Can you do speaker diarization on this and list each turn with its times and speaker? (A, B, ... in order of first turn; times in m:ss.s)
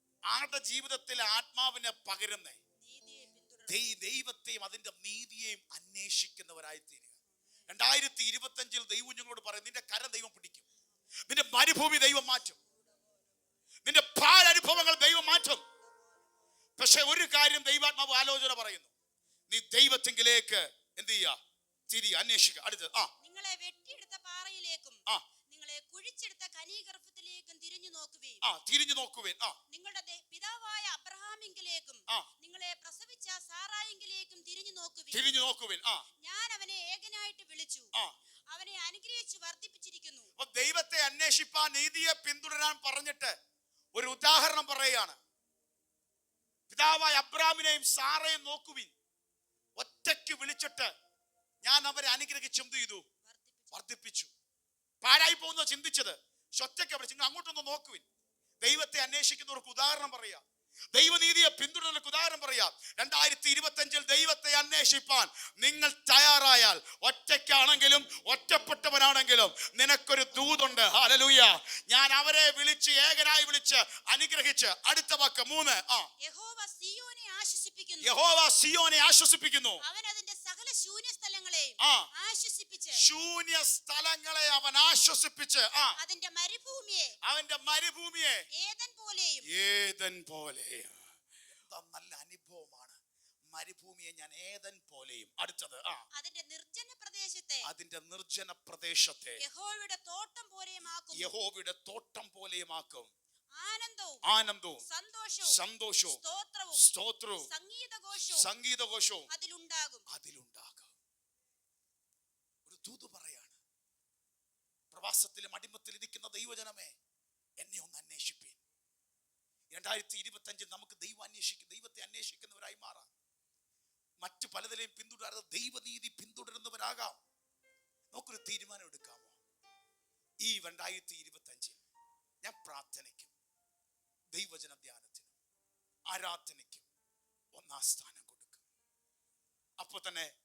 0:00.3-0:02.6 A
0:02.8-0:03.8 B
0:03.7-0:07.1 A
0:07.7-0:10.6 A
0:11.3-0:12.6 A
0:13.8-0:15.6 A
0:16.8-0:18.9 A
0:19.5-0:21.4 A
0:21.9-0:23.1 A
0:23.2-0:28.4 B
0:28.4-0:29.6 A
0:29.7-0:35.3 B
0:35.1-0:36.0 A
0:36.2-0:37.9 B
0:38.5-0:40.3 B
0:40.4-0:43.4 A
0:44.0-0:45.2 A
0:46.7-0:48.9 A
0:49.8-0:50.9 A
0:51.6-0:53.0 A
0:53.2-0:53.8 B
0:53.7-0:54.3 A
0:55.0-0:58.0 A
0:58.6-1:00.4 A
1:00.9-1:16.1 A
1:16.2-1:18.1 B
1:18.0-1:19.8 A
1:19.8-1:23.0 B
1:21.8-1:22.1 A
1:23.0-1:26.0 A
1:26.0-1:27.2 B
1:27.2-1:28.4 A
1:28.5-1:29.5 B
1:29.5-1:31.0 A
1:31.7-1:33.0 A
1:33.5-1:36.0 A
1:36.1-1:37.7 B
1:37.6-1:39.4 A
1:39.4-1:41.3 B
1:41.1-1:43.1 A
1:43.6-1:44.2 B
1:44.2-1:44.8 A
1:44.8-1:46.9 B
1:45.5-1:46.2 A
1:46.8-1:47.5 A
1:47.4-1:48.5 B
1:48.2-1:49.3 A
1:49.3-1:50.0 B
1:50.1-1:50.9 A
1:52.7-1:53.6 A
1:54.9-1:56.9 A
1:57.6-1:58.6 A
1:59.7-2:03.1 A
2:04.2-2:07.2 A
2:08.1-2:09.4 A
2:10.4-2:11.8 A
2:12.4-2:13.3 A
2:14.3-2:15.3 A
2:16.1-2:16.9 A
2:17.6-2:18.6 A
2:19.8-2:20.3 A